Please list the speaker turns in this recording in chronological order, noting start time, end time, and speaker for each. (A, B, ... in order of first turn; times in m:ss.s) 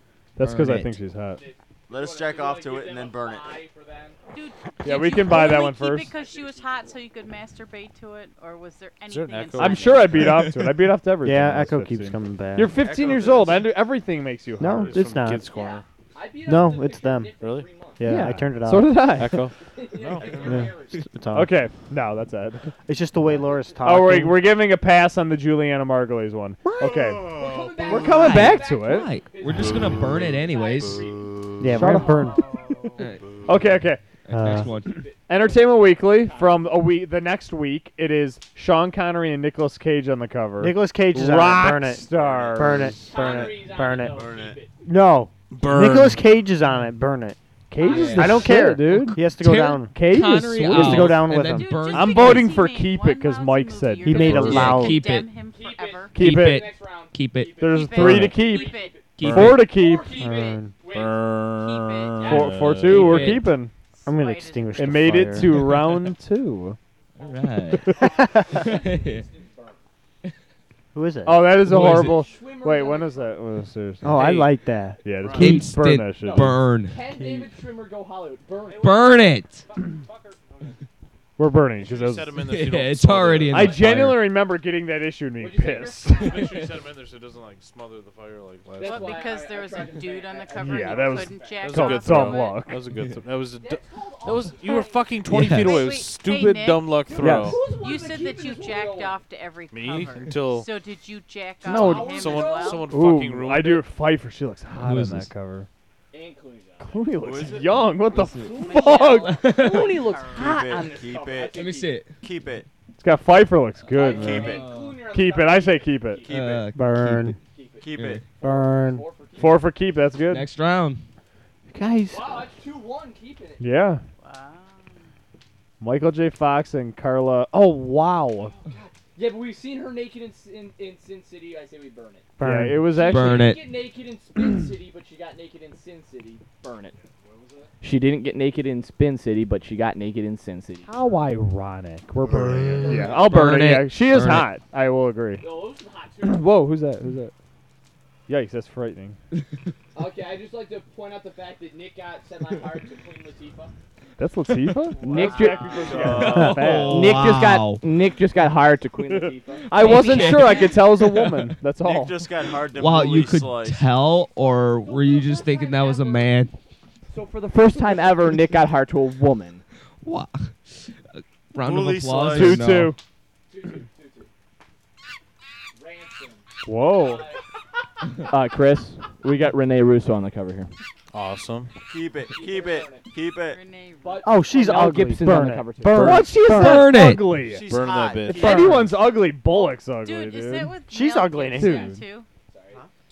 0:00.4-0:01.4 A
0:00.4-0:01.0 B
0:01.3-0:04.2 C
0:01.9-0:03.6 D
0:04.3-0:10.2 E
0:04.8-0:06.1 A
0:05.1-0:07.0 C
0:09.0-0:10.4 F
0:09.6-0:15.0 A
0:10.5-0:10.8 B
0:11.2-0:12.7 G
0:12.6-0:13.9 D
0:14.6-0:15.4 G
0:14.6-0:15.8 F
0:15.5-0:18.1 C
0:16.4-0:17.3 G
0:17.4-0:17.7 F
0:18.0-0:19.1 G
0:18.0-0:19.5 A
0:19.1-0:20.5 F
0:19.6-0:21.0 C
0:20.2-0:21.0 D
0:20.4-0:21.5 G
0:21.3-0:22.7 A
0:22.9-0:24.4 G
0:23.3-0:23.5 C
0:23.8-0:29.2 A
0:26.9-0:27.9 D
0:27.2-0:32.8 C
0:28.0-0:31.1 B
0:31.6-0:32.5 G
0:31.7-0:32.6 A
0:32.9-0:33.4 B
0:33.4-0:34.0 A
0:34.2-0:35.1 B
0:34.3-0:34.7 G
0:34.7-0:43.5 A
0:34.8-0:36.9 C
0:40.6-0:44.3 G
0:42.1-0:44.6 D
0:42.9-0:44.7 C
0:44.8-0:50.0 G
0:45.5-0:46.4 F
0:47.8-0:54.7 A
0:47.8-0:48.4 C
0:47.8-0:52.6 B
0:50.7-0:51.9 G
0:51.4-0:56.1 E
0:54.0-0:55.0 G
0:54.3-0:55.4 B
0:55.4-1:01.5 C
0:56.1-0:56.7 A
0:56.2-0:57.6 B
0:57.6-1:00.2 A
0:57.7-0:59.0 E
0:59.2-0:59.7 B
0:59.2-0:59.6 F
1:00.2-1:00.7 G
1:00.9-1:03.4 F
1:01.4-1:02.4 E
1:02.2-1:03.3 C
1:02.2-1:03.7 A
1:02.9-1:03.5 B
1:03.9-1:05.3 E
1:04.0-1:05.7 G
1:04.7-1:06.8 A
1:07.2-1:08.0 B
1:07.2-1:09.8 C
1:07.8-1:08.2 A
1:08.5-1:09.2 B
1:10.9-1:11.6 G
1:11.2-1:14.5 A
1:11.6-1:13.4 C
1:11.7-1:12.1 B
1:14.0-1:15.0 G
1:15.0-1:16.6 A
1:15.2-1:15.7 F
1:15.4-1:17.0 B
1:16.2-1:20.8 C
1:18.7-1:19.6 B
1:21.4-1:22.4 A
1:21.7-1:24.0 F
1:22.4-1:24.3 B
1:23.5-1:26.4 A
1:23.6-1:24.1 C
1:25.4-1:26.7 C
1:26.1-1:29.2 F
1:28.8-1:31.7 C
1:28.8-1:32.6 E
1:30.6-1:32.8 A
1:31.6-1:37.6 F
1:33.6-1:35.2 C
1:35.3-1:35.8 B
1:35.5-1:42.9 E
1:37.1-1:39.2 C
1:37.2-1:37.6 A
1:39.7-1:40.7 F
1:41.6-1:42.1 A
1:41.6-1:42.9 C
1:41.9-1:43.9 F
1:42.8-1:45.7 A
1:44.7-1:45.3 B
1:46.1-1:47.4 C
1:46.8-1:49.5 A
1:47.2-1:47.9 D
1:48.0-1:52.0 C
1:48.1-1:50.1 B
1:48.5-1:50.4 E
1:50.3-1:52.7 D
1:51.5-1:52.2 B
1:53.0-1:56.3 A
1:53.8-1:56.5 C
1:54.0-1:54.7 D
1:54.5-1:54.9 B
1:56.3-1:56.7 D
1:56.3-1:57.4 B
1:56.7-1:57.4 G
1:57.4-1:59.7 C
1:57.8-1:58.2 D
1:57.9-1:58.2 B
1:58.4-1:59.0 G
1:59.4-2:00.5 A
2:00.3-2:01.0 B
2:01.7-2:02.5 G
2:02.1-2:03.8 C
2:03.6-2:04.0 A
2:04.2-2:04.9 E
2:05.8-2:08.5 A
2:08.5-2:12.3 C
2:12.4-2:12.9 G
2:12.4-2:13.4 A
2:12.9-2:16.9 C
2:12.9-2:13.7 B
2:17.8-2:20.9 H
2:20.8-2:25.5 A
2:22.3-2:23.1 D
2:22.8-2:23.2 C
2:23.2-2:24.5 B
2:25.4-2:26.5 C
2:26.2-2:27.3 A
2:28.3-2:29.2 A
2:29.9-2:33.7 C
2:34.2-2:37.3 A
2:35.0-2:35.7 H
2:35.1-2:36.2 C
2:35.8-2:36.8 D
2:36.1-2:37.8 B
2:36.3-2:36.9 G
2:36.9-2:39.3 H
2:39.1-2:40.3 C
2:39.7-2:42.3 A
2:39.8-2:41.5 B
2:40.2-2:40.8 E
2:41.8-2:43.9 D
2:42.6-2:46.5 B
2:44.8-2:46.2 E
2:45.7-2:46.0 C
2:47.1-2:49.6 H
2:50.0-2:53.0 B
2:51.6-2:52.7 D
2:52.3-2:53.0 A
2:53.5-2:54.3 C
2:55.7-2:57.4 C
2:56.6-2:57.3 A
2:58.3-3:00.7 H
3:01.1-3:01.7 F
3:01.9-3:03.6 D
3:02.2-3:03.1 C
3:03.4-3:04.3 E
3:04.0-3:04.4 C
3:04.2-3:06.9 G
3:04.5-3:06.2 H
3:05.8-3:07.7 A
3:06.3-3:07.3 B
3:07.4-3:09.0 D
3:07.6-3:08.9 F
3:08.3-3:10.8 A
3:10.0-3:12.3 E
3:10.9-3:11.9 G
3:11.5-3:12.0 A
3:11.6-3:11.9 C
3:12.5-3:12.8 C